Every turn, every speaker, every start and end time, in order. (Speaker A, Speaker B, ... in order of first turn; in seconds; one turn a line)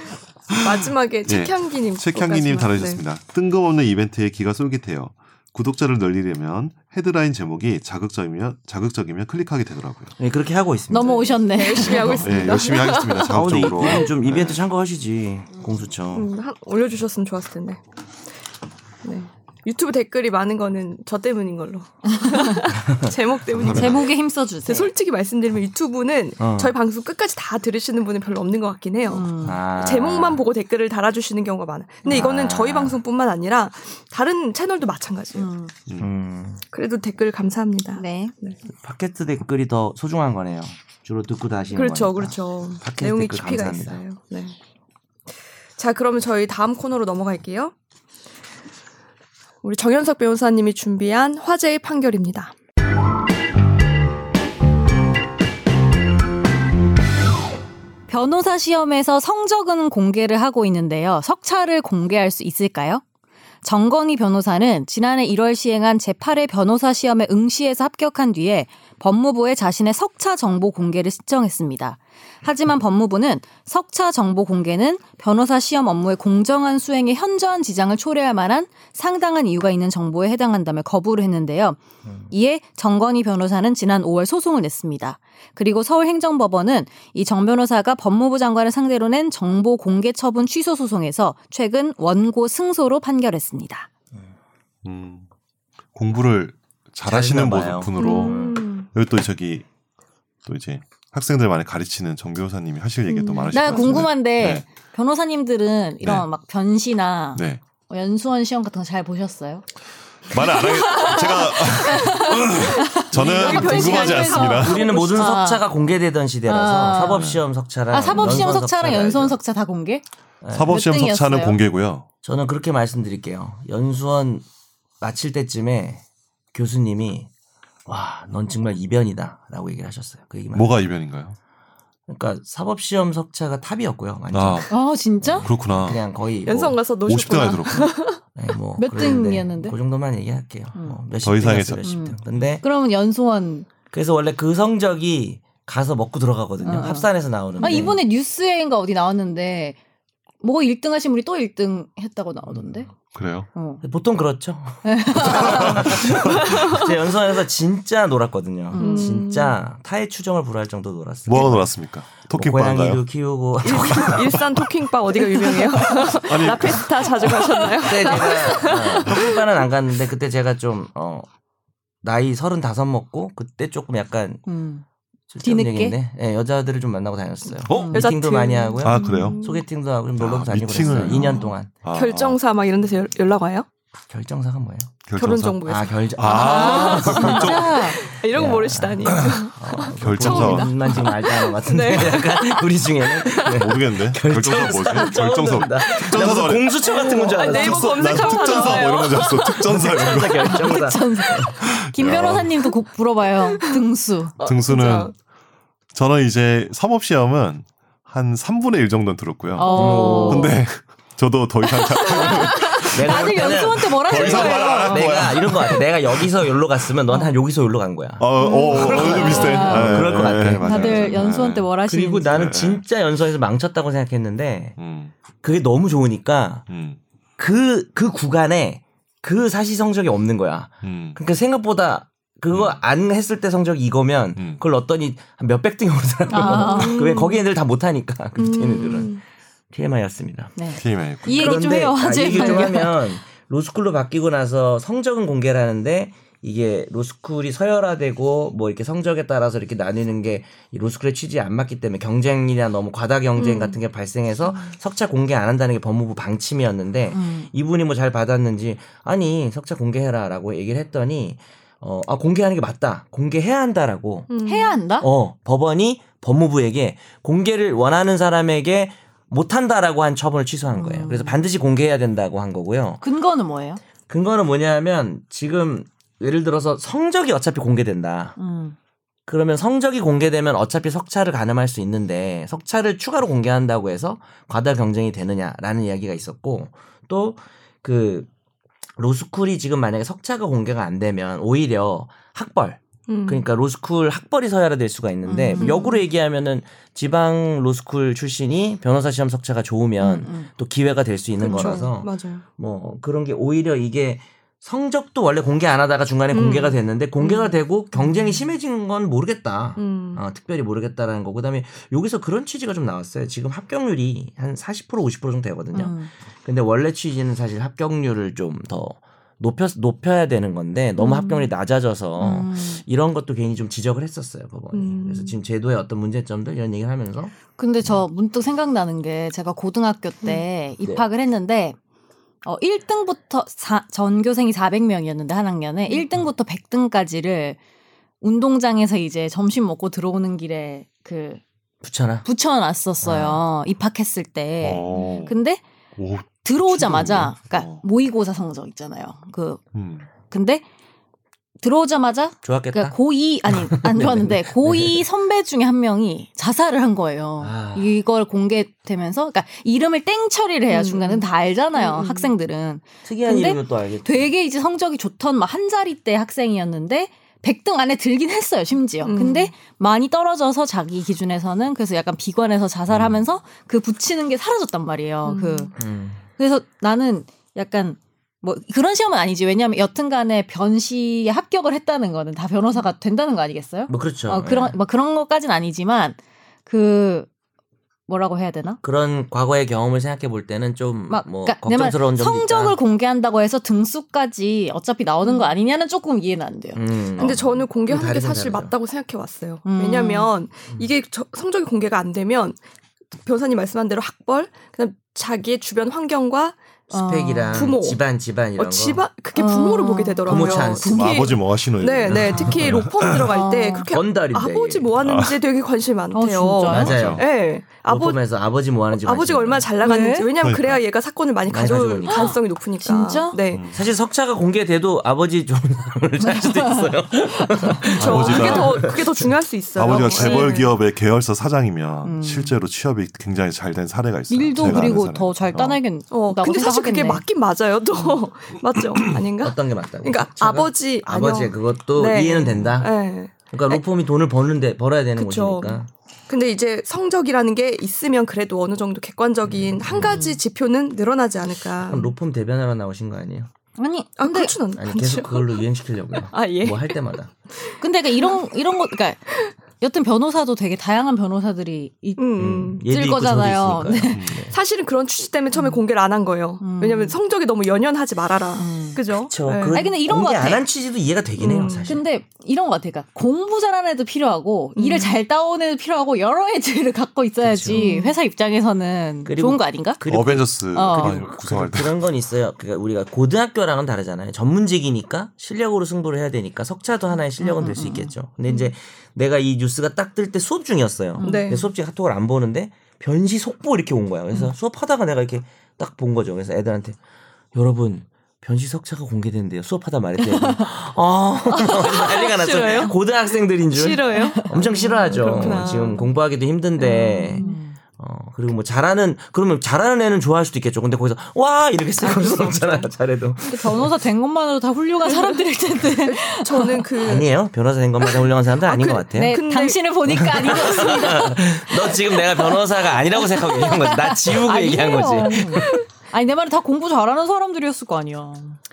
Speaker A: 0.5-10.1
Speaker B: 0.6-3.0
Speaker C: 10.2-11.3
Speaker D: 10.9-12.4
Speaker B: 11.0-14.0
Speaker A: 11.8-14.6
Speaker C: 13.3-16.3
Speaker B: 16.1-17.8
Speaker B: 19.0-35.5
Speaker D: 22.2-22.5
Speaker A: 23.5-24.0
Speaker D: 23.6-24.9
Speaker C: 26.4-26.7
Speaker D: 29.1-29.6
Speaker C: 29.4-30.4
Speaker C: 32.0-33.0
Speaker D: 35.3-35.7
Speaker C: 36.0-36.6
Speaker B: 36.7-38.6
Speaker D: 37.9-38.3
Speaker C: 38.7-44.0
Speaker B: 41.7-44.5
Speaker B: 45.8-47.7
Speaker B: 49.6-52.5
Speaker D: 58.1-63.0
Speaker D: 63.6-93.9
Speaker A: 94.8-95.3
Speaker A: 95.9-99.7
Speaker C: 97.0-98.6
Speaker B: 98.0-98.9
Speaker A: 100.5-104.7
Speaker B: 103.1-104.0
Speaker D: 103.5-109.6
Speaker A: 107.3-107.6
Speaker A: 110.3-114.8
Speaker D: 110.4-115.6
Speaker B: 112.0-115.0
Speaker C: 114.5-119.4
Speaker D: 116.5-117.3
Speaker A: 117.1-117.4
Speaker D: 117.9-120.0
Speaker C: 120.4-120.7
Speaker A: 120.5-122.1
Speaker D: 120.6-121.6
Speaker C: 122.2-124.4
Speaker C: 125.0-127.3
Speaker C: 127.9-130.8
Speaker A: 130.5-131.3
Speaker C: 132.1-136.8
Speaker A: 134.3-134.7
Speaker D: 134.7-135.5
Speaker A: 135.4-136.0
Speaker B: 136.4-138.2
Speaker A: 137.1-137.9
Speaker C: 138.3-142.6
Speaker D: 138.8-139.7
Speaker B: 139.0-139.3
Speaker A: 141.2-141.8
Speaker D: 141.8-143.7
Speaker C: 143.9-148.0
Speaker D: 146.6-149.8
Speaker D: 150.4-152.9
Speaker A: 153.1-153.5
Speaker D: 153.5-153.8
Speaker C: 153.8-164.4
Speaker D: 154.8-156.1
Speaker A: 155.4-156.5
Speaker B: 156.4-156.8
Speaker D: 158.7-159.2
Speaker B: 158.8-159.6
Speaker A: 161.2-163.0
Speaker B: 163.6-169.4
Speaker A: 163.8-164.4
Speaker A: 165.8-167.6
Speaker C: 167.8-171.3
Speaker C: 172.0-174.4
Speaker D: 174.4-174.8
Speaker C: 175.3-181.7
Speaker D: 175.4-176.0
Speaker A: 177.7-178.0
Speaker D: 177.7-178.1
Speaker B: 177.9-179.6
Speaker A: 178.8-179.4
Speaker A: 180.2-182.4
Speaker B: 180.9-183.7
Speaker C: 184.1-184.9
Speaker A: 185.0-188.0
Speaker B: 185.2-193.7
Speaker C: 185.6-187.5
Speaker D: 186.3-188.0
Speaker C: 188.3-199.0
Speaker A: 190.0-191.1
Speaker A: 193.4-196.9
Speaker B: 195.9-199.8
Speaker A: 197.4-200.8
Speaker C: 199.6-201.6
Speaker D: 200.4-204.3
Speaker A: 201.6-202.5
Speaker B: 203.5-203.8
Speaker B: 204.4-205.1
Speaker A: 204.4-205.1
Speaker A: 205.9-216.3
Speaker D: 209.6-210.6
Speaker B: 209.7-210.3
Speaker C: 209.7-210.6
Speaker D: 211.8-215.2
Speaker C: 212.5-221.2
Speaker A: 218.2-221.7
Speaker B: 218.4-219.7
Speaker D: 218.9-222.3
Speaker C: 221.9-224.8
Speaker A: 222.2-222.8
Speaker A: 224.8-225.1
Speaker C: 225.4-226.7
Speaker A: 226.7-227.0
Speaker C: 227.4-239.2
Speaker A: 230.8-231.2
Speaker A: 232.5-232.8
Speaker D: 236.3-237.2
Speaker B: 236.3-237.4
Speaker B: 238.4-239.2
Speaker C: 239.7-240.6
Speaker D: 240.6-243.0
Speaker A: 240.8-241.6
Speaker C: 241.2-264.3
Speaker B: 242.3-242.7
Speaker B: 253.4-253.8
Speaker D: 257.1-257.5
Speaker B: 264.3-264.8
Speaker D: 264.4-265.1
Speaker C: 265.0-273.0
Speaker D: 270.7-271.4
Speaker D: 273.0-273.8
Speaker C: 274.1-278.4
Speaker D: 278.4-278.8
Speaker C: 279.3-288.3
Speaker C: 289.0-328.0
Speaker B: 293.1-293.4
Speaker D: 295.2-295.8
Speaker B: 295.6-296.0
Speaker D: 300.0-300.5
Speaker B: 301.4-302.4
Speaker B: 306.3-307.4
Speaker B: 309.8-310.2
Speaker D: 315.7-316.1
Speaker B: 321.0-321.4
Speaker D: 322.2-322.8
Speaker B: 324.7-325.3
Speaker D: 327.6-331.8
Speaker D: 332.4-337.6
Speaker D: 338.2-341.4
Speaker C: 341.8-342.2
Speaker D: 342.2-345.6
Speaker C: 343.0-343.4
Speaker A: 344.6-345.4
Speaker A: 346.0-347.8
Speaker D: 346.4-349.6
Speaker A: 349.7-350.1
Speaker D: 350.2-350.6
Speaker D: 351.6-375.7
Speaker C: 352.4-353.0
Speaker C: 353.5-355.0
Speaker C: 357.4-357.9
Speaker B: 360.7-362.3
Speaker C: 363.0-364.3
Speaker B: 369.0-369.5
Speaker B: 375.2-375.8
Speaker C: 375.8-376.2
Speaker D: 376.4-387.3
Speaker C: 383.9-384.8
Speaker D: 388.1-388.8
Speaker C: 388.8-392.8
Speaker D: 391.1-397.3
Speaker B: 395.2-395.5
Speaker C: 396.7-398.7
Speaker B: 397.2-402.6
Speaker D: 399.6-400.3
Speaker B: 403.2-406.6
Speaker D: 406.9-407.6
Speaker C: 406.9-409.0
Speaker B: 407.5-408.0
Speaker B: 408.6-418.2
Speaker D: 409.3-411.3
Speaker C: 410.2-411.0
Speaker A: 410.9-413.3
Speaker C: 412.1-412.7
Speaker D: 413.3-413.9
Speaker C: 413.9-414.9
Speaker A: 415.0-415.4
Speaker D: 416.1-417.0
Speaker C: 416.6-417.3
Speaker A: 416.7-417.2
Speaker C: 417.8-419.7
Speaker B: 419.0-423.6
Speaker D: 419.8-420.3
Speaker A: 420.4-420.8
Speaker C: 421.5-422.4
Speaker D: 422.1-423.4
Speaker A: 423.5-423.8
Speaker C: 423.7-429.2
Speaker D: 426.2-428.0
Speaker A: 427.9-429.0
Speaker B: 427.9-430.7
Speaker A: 429.7-435.8
Speaker D: 429.9-430.7
Speaker D: 432.0-432.6
Speaker D: 434.3-437.2
Speaker C: 434.6-434.9
Speaker B: 436.1-443.8
Speaker C: 439.4-442.9
Speaker C: 443.5-445.9
Speaker B: 445.2-452.1
Speaker C: 449.5-450.2
Speaker D: 450.0-450.4
Speaker C: 451.8-453.5
Speaker D: 453.8-454.6
Speaker B: 454.2-455.6
Speaker C: 454.8-457.3
Speaker B: 456.2-457.0
Speaker D: 457.8-459.2
Speaker D: 459.8-462.3
Speaker B: 462.2-462.8
Speaker C: 462.4-464.5
Speaker D: 462.8-464.3
Speaker A: 464.1-464.5
Speaker B: 464.5-469.8
Speaker D: 466.6-467.2
Speaker D: 468.6-469.0
Speaker C: 469.2-472.0
Speaker D: 469.7-470.6
Speaker B: 471.4-472.0
Speaker D: 471.9-480.0
Speaker B: 474.8-475.2
Speaker C: 477.4-477.8
Speaker B: 477.7-478.2
Speaker C: 479.2-497.0
Speaker A: 480.0-481.9
Speaker D: 480.7-481.3
Speaker D: 487.4-488.1
Speaker D: 491.2-491.5
Speaker B: 491.2-491.7
Speaker C: 497.5-507.4
Speaker D: 500.3-500.6
Speaker B: 501.6-502.9
Speaker B: 503.7-506.1
Speaker D: 504.1-505.9
Speaker B: 506.8-507.6
Speaker D: 507.3-507.8
Speaker C: 508.0-513.9
Speaker B: 512.0-512.9
Speaker D: 513.4-516.9
Speaker B: 515.0-515.4
Speaker B: 516.0-517.3
Speaker C: 517.0-519.4
Speaker B: 518.6-521.1
Speaker D: 519.1-522.3
Speaker C: 520.1-525.8
Speaker D: 523.1-528.6